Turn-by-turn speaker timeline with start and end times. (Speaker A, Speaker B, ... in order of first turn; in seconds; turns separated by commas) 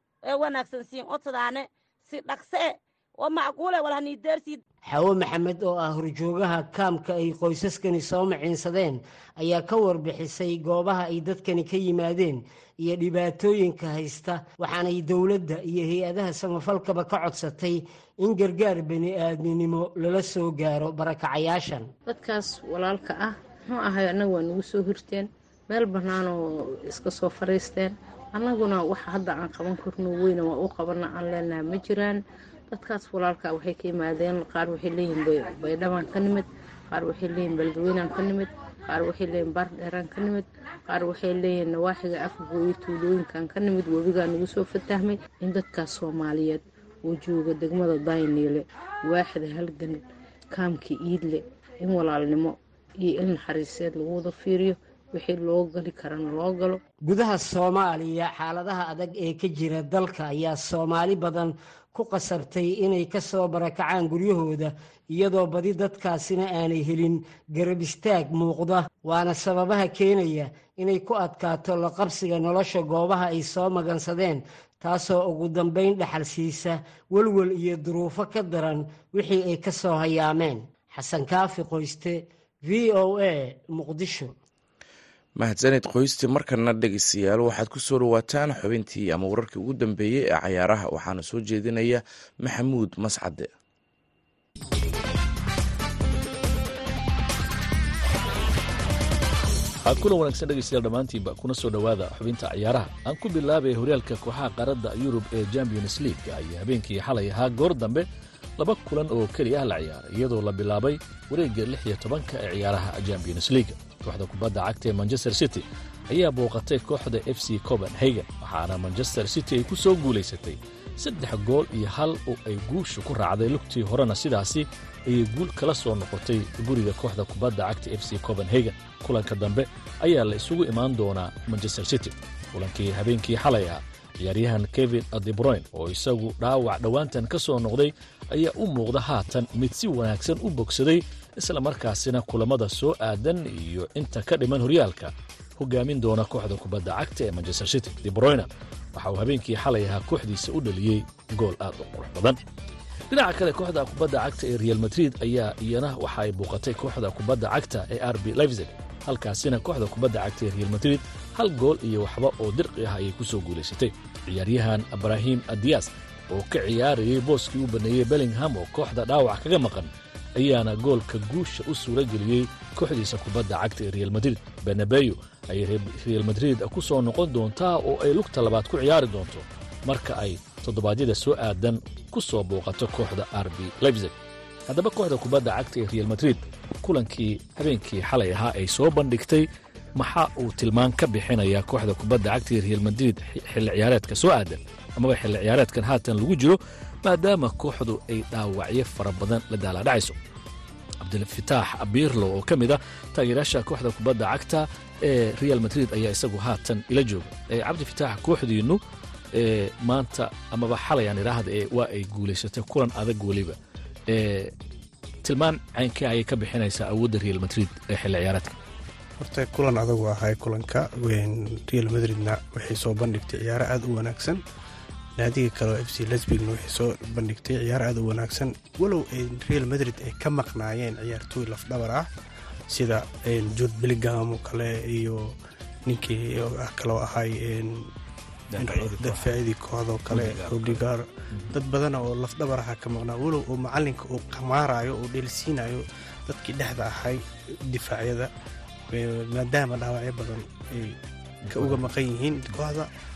Speaker A: 0.2-4.6, Speaker B: 4.9-21.9, Speaker C: 22.1-56.8, Speaker B: 57.0-84.3, Speaker D: 85.4-93.5, Speaker E: 99.8-108.0, Speaker E: 108.6-152.4, Speaker E: 153.1-184.1, Speaker E: 184.7-189.4, Speaker E: 190.0-200.2, Speaker E: 201.0-208.8, Speaker E: 209.3-213.6, Speaker E: 214.1-214.5, Speaker E: 215.2-218.6, Speaker F: 219.2-224.4, Speaker F: 225.2-232.1, Speaker F: 232.7-235.3, Speaker F: 235.9-237.9, Speaker E: 238.5-239.3, Speaker F: 238.5-248.3, Speaker E: 240.1-240.8, Speaker F: 248.9-252.9, Speaker E: 251.5-251.8